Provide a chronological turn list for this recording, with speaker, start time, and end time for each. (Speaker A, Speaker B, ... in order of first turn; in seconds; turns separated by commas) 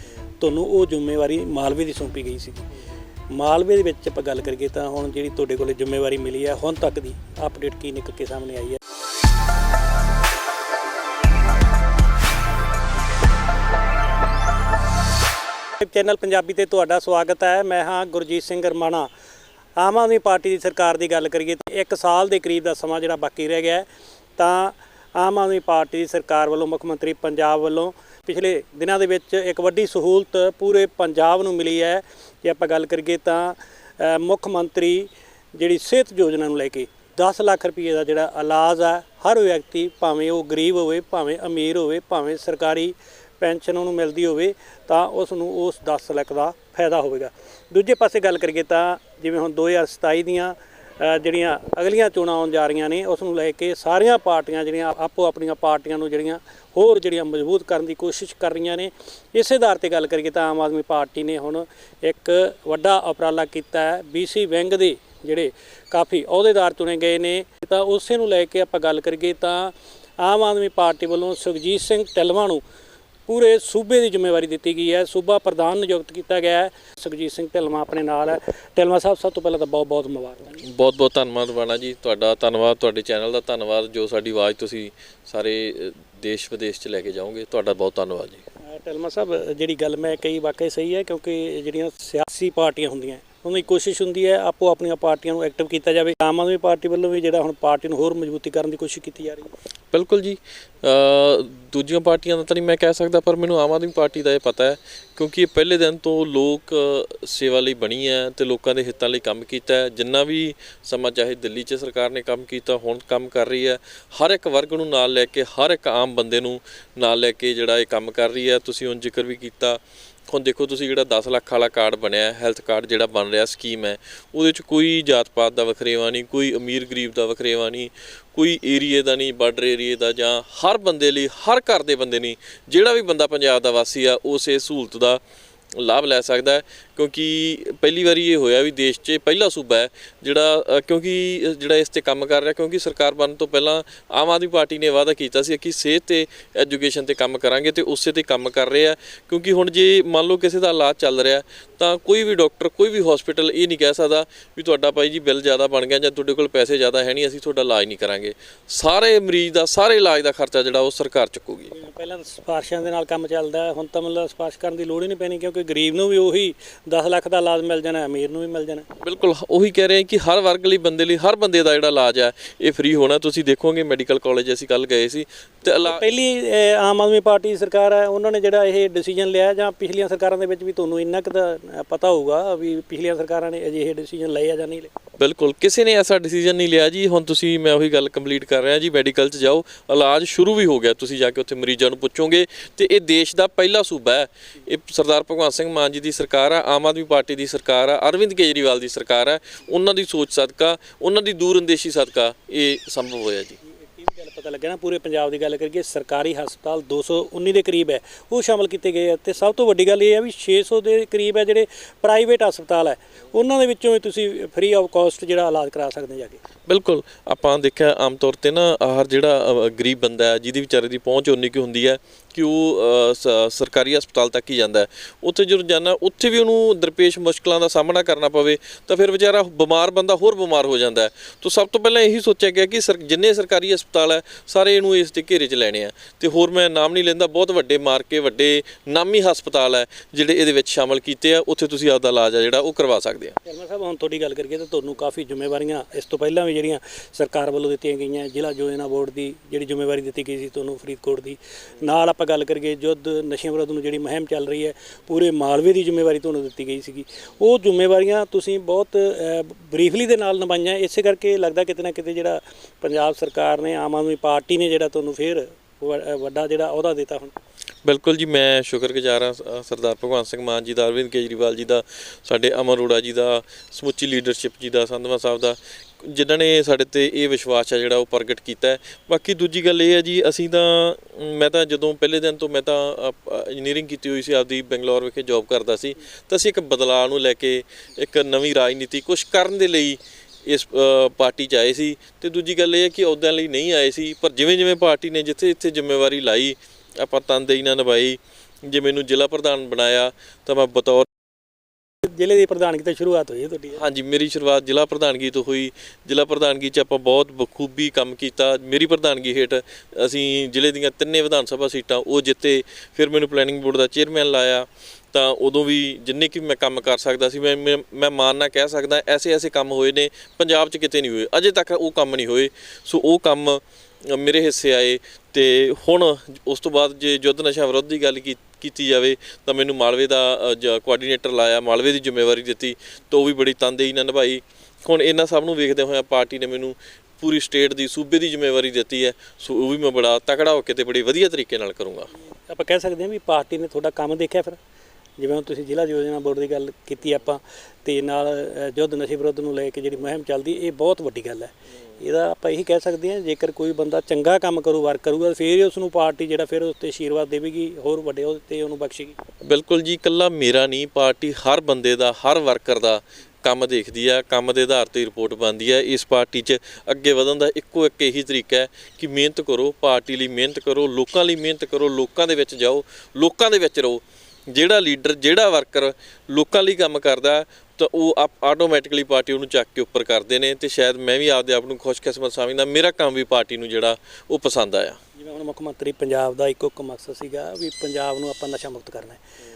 Speaker A: 0.4-2.7, Speaker A: 3.3-8.8, Speaker A: 15.8-19.1, Speaker A: 19.8-72.6, Speaker A: 73.3-80.6, Speaker B: 80.6-88.4, Speaker A: 88.7-99.5, Speaker B: 99.9-135.2, Speaker B: 135.8-161.7, Speaker A: 161.7-168.8, Speaker B: 169.0-176.0, Speaker A: 175.8-184.9, Speaker B: 185.2-203.6, Speaker A: 203.9-216.4, Speaker B: 216.7-243.4, Speaker A: 243.4-267.3, Speaker B: 267.8-301.1, Speaker A: 302.0-303.8, Speaker B: 303.7-342.1, Speaker A: 342.5-344.6, Speaker A: 345.2-359.2, Speaker B: 359.4-385.0, Speaker A: 385.2-389.2